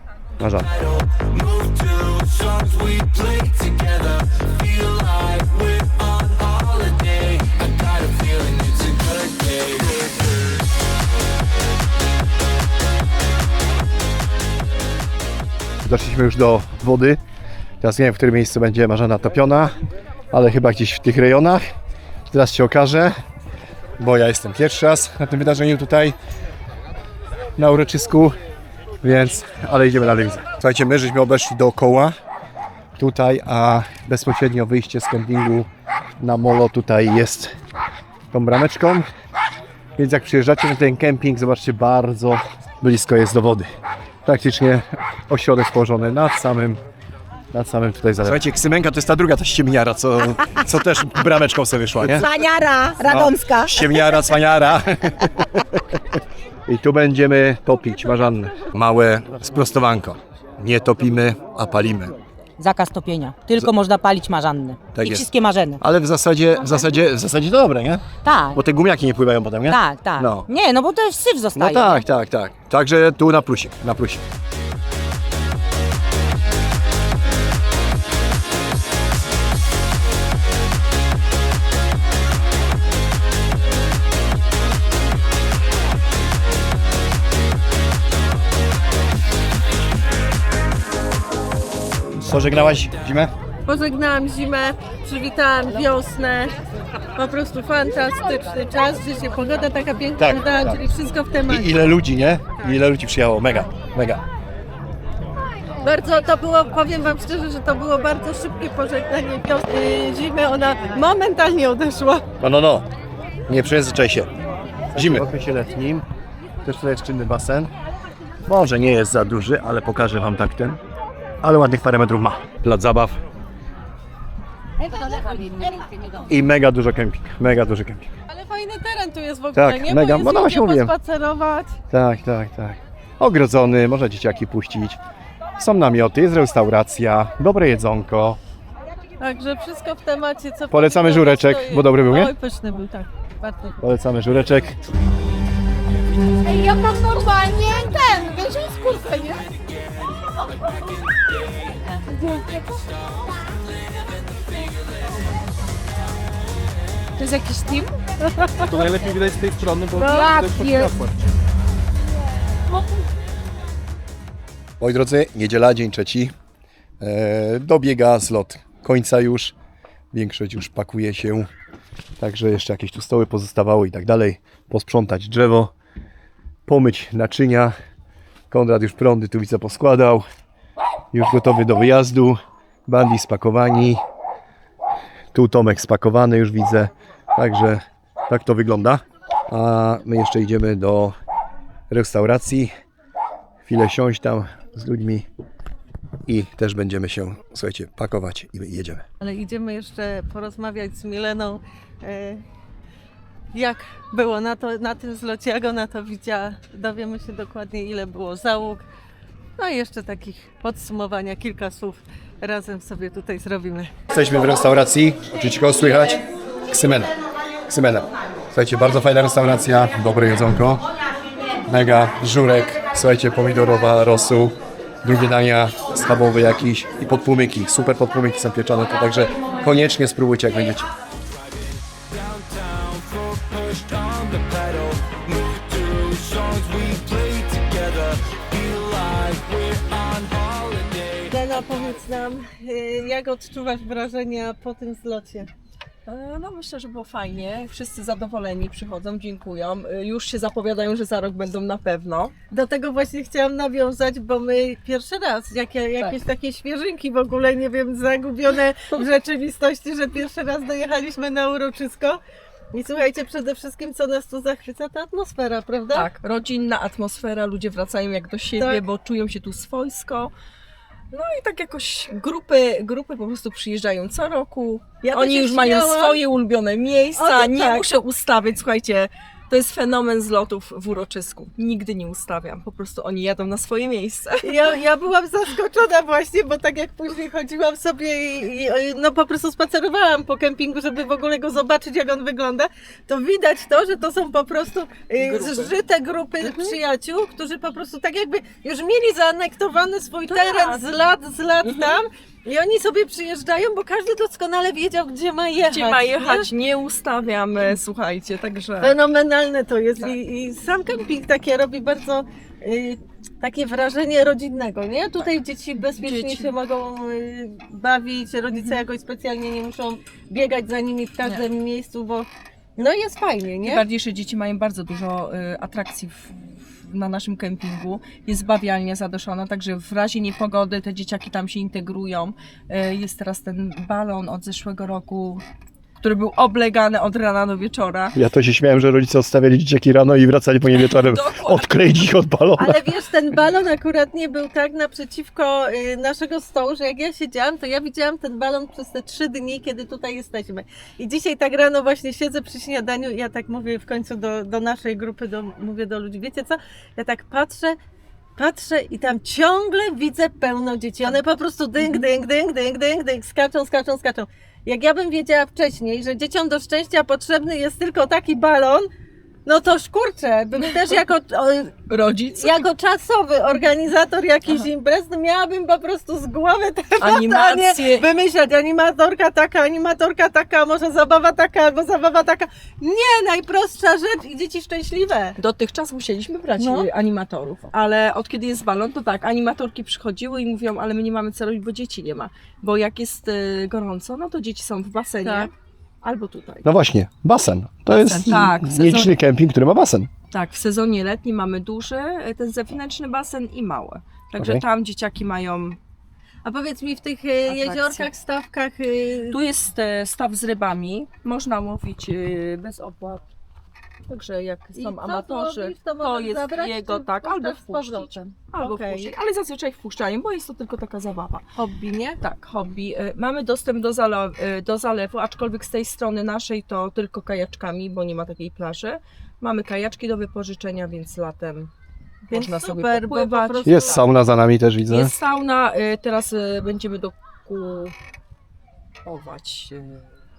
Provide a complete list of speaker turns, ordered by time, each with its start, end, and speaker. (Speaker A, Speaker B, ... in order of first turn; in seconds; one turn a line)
Speaker A: 0.4-0.7
Speaker B: 0.5-10.7
Speaker A: 15.8-17.2
Speaker A: 17.8-19.7
Speaker A: 20.3-21.6
Speaker A: 22.3-23.1
Speaker A: 24.0-26.1
Speaker A: 27.6-28.3
Speaker A: 29.0-32.1
Speaker A: 33.0-35.7
Speaker A: 36.2-37.5
Speaker A: 38.3-39.1
Speaker A: 40.0-43.7
Speaker A: 44.2-46.8
Speaker A: 47.5-52.3
Speaker C: 52.2-53.8
Speaker A: 53.0-55.8
Speaker A: 56.7-62.1
Speaker C: 62.6-65.8
Speaker A: 65.0-70.5
Speaker C: 68.2-68.6
Speaker C: 69.7-72.0
Speaker A: 71.5-74.2
Speaker A: 92.2-93.3
Speaker D: 93.7-96.6
Speaker D: 97.2-102.0
Speaker A: 100.2-100.8
Speaker A: 101.5-104.2
Speaker D: 105.8-112.3
Speaker A: 112.4-112.9
Speaker A: 113.5-114.3
Speaker A: 114.9-116.0
Speaker A: 116.6-117.7
Speaker A: 118.5-120.8
Speaker A: 121.4-123.2
Speaker E: 124.9-125.9
Speaker A: 126.3-128.1
Speaker D: 128.3-131.8
Speaker A: 129.6-130.9
Speaker A: 131.9-135.0
Speaker A: 135.6-138.4
Speaker D: 139.2-143.8
Speaker A: 140.7-142.3
Speaker A: 143.8-144.8
Speaker E: 146.4-149.4
Speaker B: 148.7-155.3
Speaker B: 156.2-157.1
Speaker E: 157.2-158.0
Speaker F: 158.7-161.1
Speaker E: 160.0-161.0
Speaker A: 164.8-166.3
Speaker A: 167.0-169.6
Speaker A: 170.1-171.5
Speaker A: 172.2-175.7
Speaker A: 176.7-177.7
Speaker A: 178.5-180.2
Speaker A: 181.1-184.0
Speaker A: 185.3-191.1
Speaker A: 191.9-192.7
Speaker A: 193.7-195.3
Speaker A: 196.3-199.0
Speaker D: 199.2-202.4
Speaker D: 203.5-208.8
Speaker D: 209.6-213.9
Speaker A: 214.1-217.1
Speaker A: 217.7-220.8
Speaker A: 221.7-230.9
Speaker B: 231.2-241.7
Speaker D: 241.3-245.5
Speaker G: 246.1-252.3
Speaker D: 252.5-262.2
Speaker D: 262.7-266.1
Speaker G: 265.9-270.3
Speaker G: 271.1-284.7
Speaker D: 275.1-276.2
Speaker D: 277.2-277.9
Speaker D: 284.4-306.5
Speaker G: 295.2-295.7
Speaker G: 296.4-296.7
Speaker G: 300.3-300.8
Speaker G: 301.6-302.0
Speaker G: 305.7-309.0
Speaker D: 308.8-323.8
Speaker G: 316.0-316.5
Speaker G: 323.6-335.4
Speaker G: 336.0-338.2
Speaker A: 338.1-342.8
Speaker G: 340.8-341.7
Speaker D: 342.6-357.8
Speaker D: 358.4-368.9
Speaker D: 369.5-371.7
Speaker G: 371.9-372.7
Speaker D: 372.4-385.4
Speaker G: 377.0-378.1
Speaker G: 385.4-396.7
Speaker D: 386.6-386.9
Speaker D: 395.2-395.5
Speaker A: 396.6-400.1
Speaker G: 397.9-399.1
Speaker G: 400.3-405.8
Speaker A: 404.4-404.6
Speaker D: 406.4-409.4
Speaker G: 407.5-408.1
Speaker G: 409.3-413.2
Speaker G: 414.1-421.4
Speaker D: 414.8-419.1
Speaker D: 421.6-422.2
Speaker G: 422.2-431.7
Speaker G: 432.3-434.1
Speaker D: 432.3-434.1
Speaker A: 433.6-435.1
Speaker G: 434.9-437.9
Speaker G: 439.1-440.1